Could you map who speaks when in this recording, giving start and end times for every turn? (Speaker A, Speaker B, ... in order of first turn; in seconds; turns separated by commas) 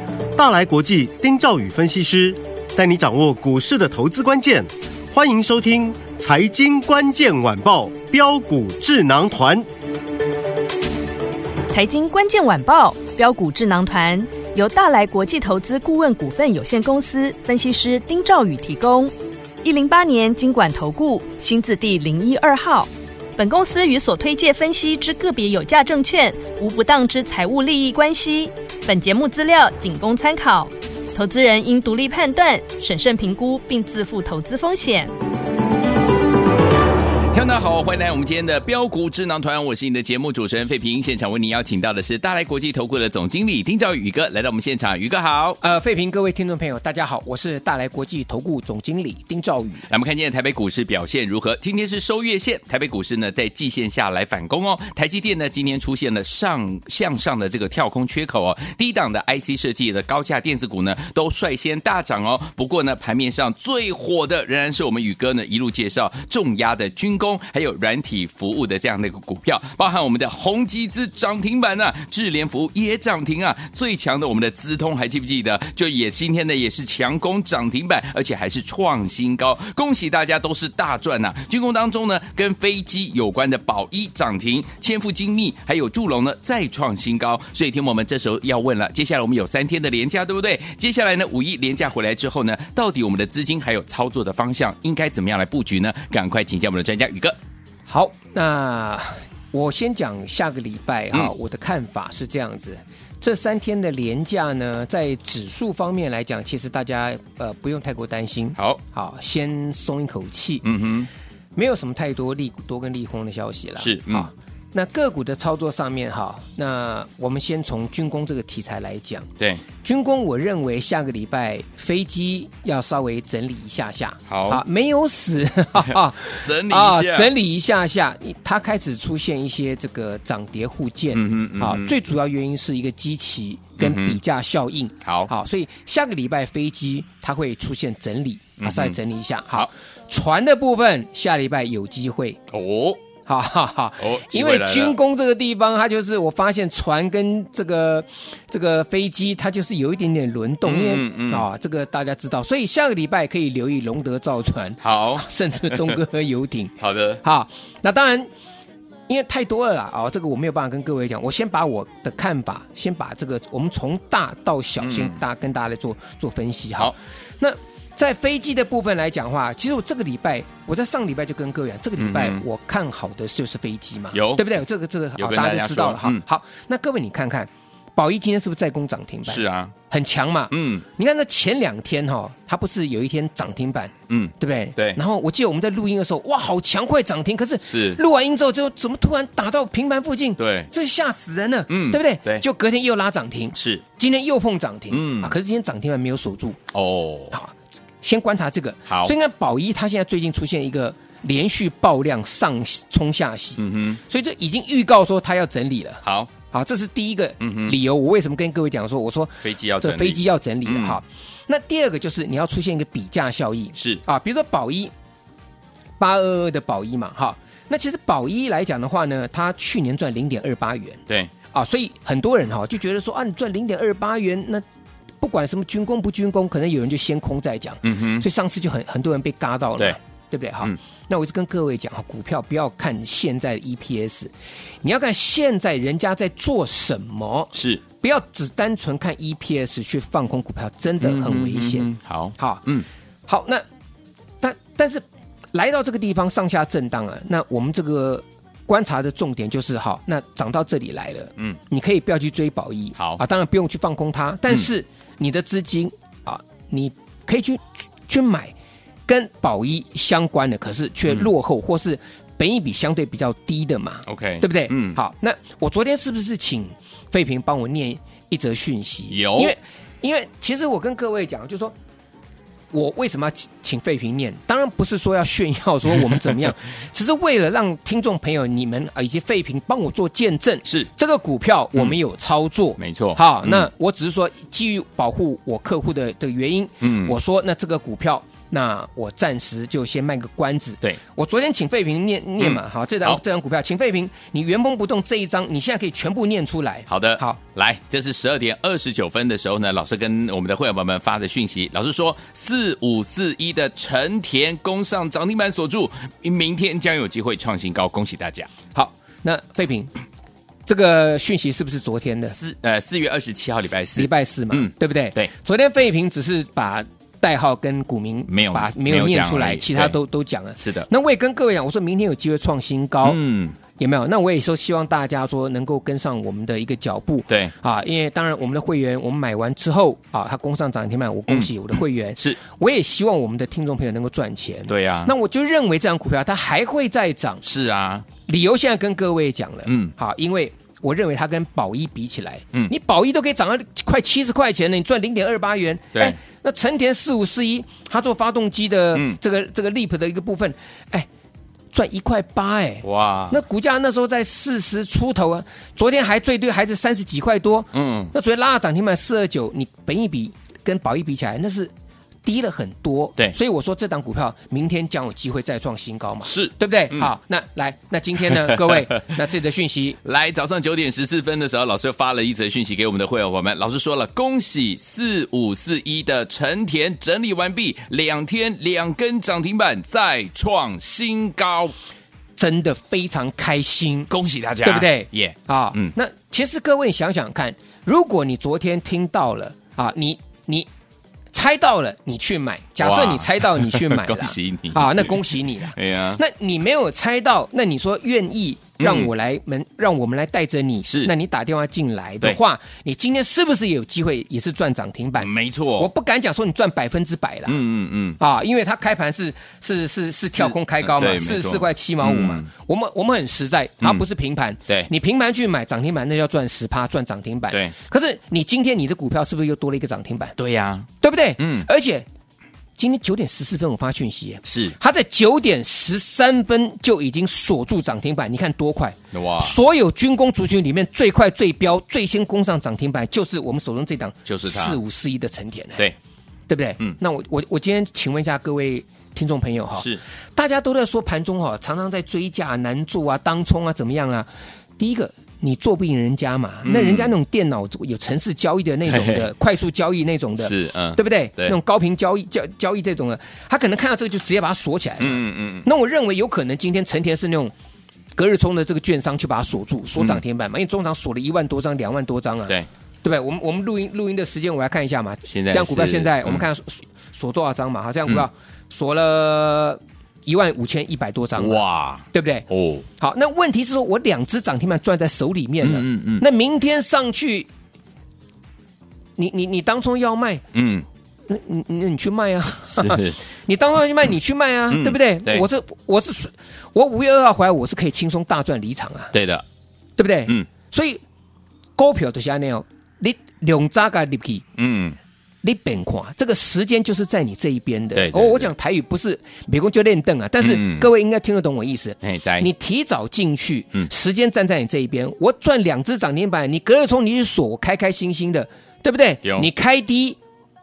Speaker A: 0.3-9.7, Speaker B: 11.7-35.1, Speaker C: 37.3-45.6, Speaker D: 45.6-49.9, Speaker C: 49.8-97.3, Speaker D: 97.9-110.7, Speaker C: 110.6-111.1, Speaker D: 111.5-119.3, Speaker C: 113.8-114.3, Speaker D: 119.8-142.4, Speaker C: 124.3-124.6, Speaker C: 125.8-127.3, Speaker C: 131.1-131.9, Speaker C: 133.8-134.2, Speaker C: 135.0-135.3, Speaker C: 138.6-139.0, Speaker C: 142.5-143.0, Speaker D: 143.2-158.3, Speaker C: 144.0-145.0, Speaker C: 150.6-151.5, Speaker C: 154.8-155.9, Speaker C: 156.8-157.2, Speaker D: 159.1-196.6, Speaker C: 164.8-165.2, Speaker C: 172.0-172.4, Speaker C: 174.1-174.6, Speaker C: 175.2-176.2, Speaker C: 179.2-179.7, Speaker C: 180.5-180.8, Speaker C: 184.1-185.0, Speaker C: 187.6-188.0, Speaker C: 190.4-190.7, Speaker C: 191.7-192.4, Speaker C: 193.5-193.8, Speaker C: 194.9-195.3, Speaker C: 196.7-197.3, Speaker D: 197.3-214.9, Speaker C: 198.9-199.1, Speaker C: 203.6-204.0, Speaker C: 206.0-206.3, Speaker C: 207.4-207.7, Speaker C: 209.4-211.0, Speaker C: 213.7-214.0, Speaker D: 216.0-224.6, Speaker D: 225.2-242.6, Speaker C: 227.8-228.2, Speaker C: 237.5-237.8, Speaker C: 241.0-242.8, Speaker D: 243.3-243.6, Speaker D: 244.4-258.5, Speaker D: 259.1-271.7, Speaker C: 264.1-265.0, Speaker C: 269.1-269.5, Speaker D: 272.7-297.4, Speaker C: 282.8-283.7, Speaker C: 286.8-287.1, Speaker C: 292.4-293.2, Speaker C: 296.9-308.5, Speaker D: 308.7-309.9, Speaker D: 310.7-312.4, Speaker C: 312.3-315.3, Speaker D: 313.9-323.2, Speaker C: 318.3-320.0, Speaker C: 320.6-320.9, Speaker C: 323.0-323.6, Speaker D: 323.8-337.4, Speaker C: 334.7-335.1, Speaker C: 337.4-338.1, Speaker D: 338.2-351.1, Speaker C: 339.6-339.9, Speaker D: 351.7-361.7, Speaker C: 352.8-353.4, Speaker C: 357.7-358.1, Speaker D: 362.2-370.0, Speaker C: 366.2-367.1, Speaker C: 368.3-368.8, Speaker C: 370.0-381.7, Speaker D: 382.4-384.1, Speaker C: 384.1-385.9, Speaker D: 384.6-390.7, Speaker D: 391.3-407.6, Speaker C: 392.8-396.2, Speaker C: 398.8-399.1, Speaker C: 400.8-401.1, Speaker C: 405.2-405.9, Speaker C: 407.4-408.2, Speaker D: 408.2-420.3, Speaker C: 410.2-412.5, Speaker C: 420.4-421.6, Speaker D: 421.0-422.1, Speaker D: 422.8-435.8, Speaker C: 424.4-424.8, Speaker C: 429.1-429.5, Speaker C: 434.2-434.8, Speaker D: 436.5-457.5, Speaker C: 439.8-440.0, Speaker C: 446.6-447.1, Speaker C: 448.8-449.3, Speaker C: 450.4-451.6, Speaker C: 455.0-455.7, Speaker D: 458.1-471.6, Speaker C: 465.2-466.4, Speaker C: 471.4-472.9, Speaker D: 472.1-472.5, Speaker D: 473.0-477.5, Speaker C: 475.6-476.2, Speaker D: 479.2-480.4, Speaker C: 480.5-480.8, Speaker D: 481.3-489.1, Speaker C: 482.7-483.2, Speaker C: 484.7-485.4, Speaker C: 489.1-489.4, Speaker D: 490.0-491.0, Speaker D: 491.8-494.4, Speaker C: 494.6-495.0, Speaker D: 495.4-510.2, Speaker C: 497.9-498.5, Speaker C: 500.4-500.9, Speaker C: 502.0-502.5, Speaker C: 509.2-509.5